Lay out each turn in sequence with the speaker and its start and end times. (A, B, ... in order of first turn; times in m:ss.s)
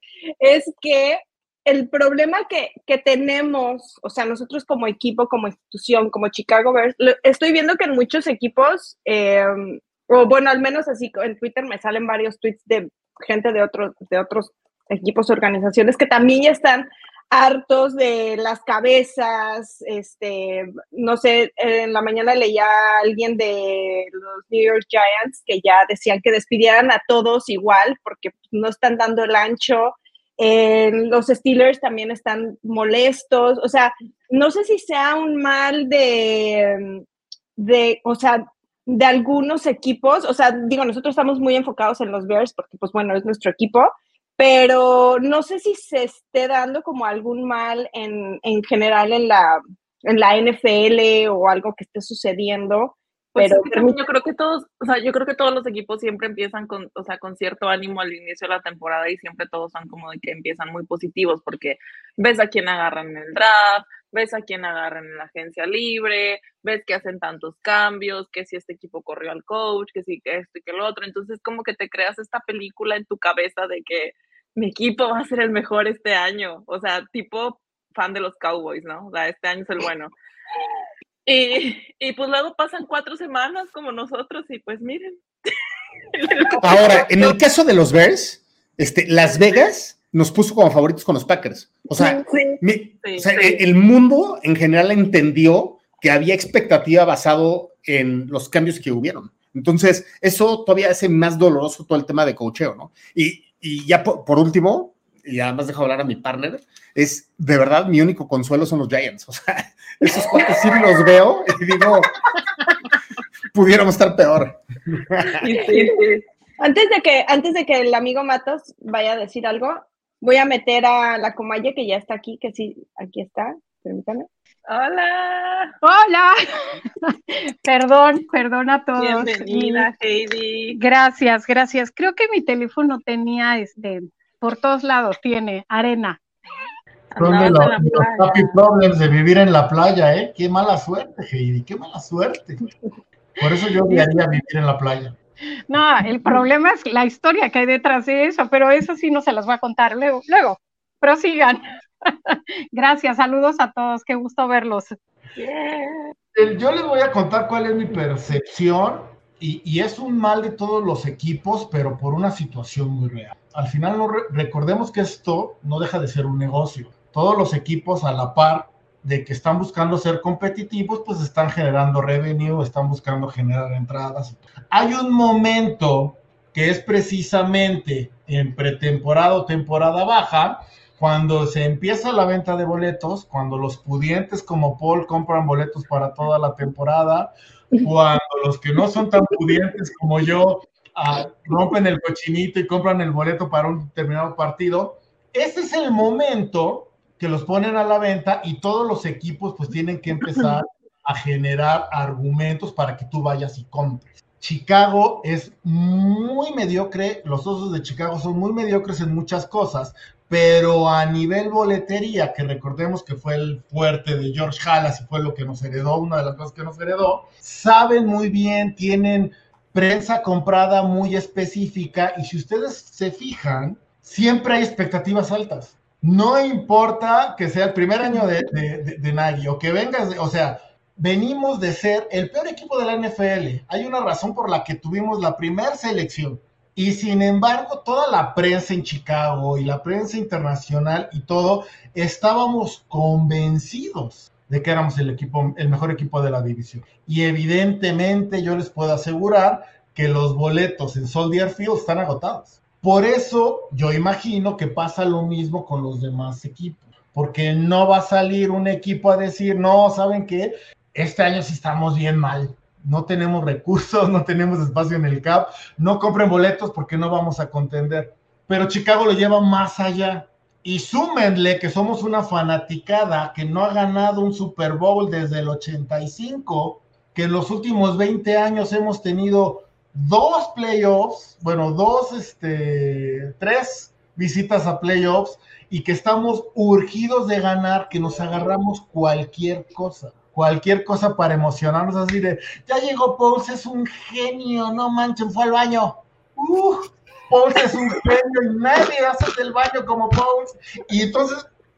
0:00.4-0:37.0 A
0:37.6-0:54.0 A
0:53.4-1:20.1 B
1:21.2-1:25.2 B
1:26.2-1:27.3 B
1:26.5-1:27.2 A
1:26.6-1:52.1 C
1:31.9-1:32.6 A
1:33.0-1:33.6 B
1:53.5-1:54.6 C
1:55.1-1:55.4 C
1:55.4-1:56.2 B
1:55.5-1:56.0 A
1:56.6-2:04.3 A
2:04.7-2:05.7 B
2:05.8-2:06.4 D
2:07.1-2:09.9 D
2:09.0-2:10.8 B
2:10.7-2:16.2 D
2:17.1-2:18.5 B
2:17.2-2:22.6 E
2:23.4-2:25.1 E
2:25.7-2:31.6 D
2:32.3-2:34.9 D
2:35.4-2:36.1 B
2:36.4-5:01.4 E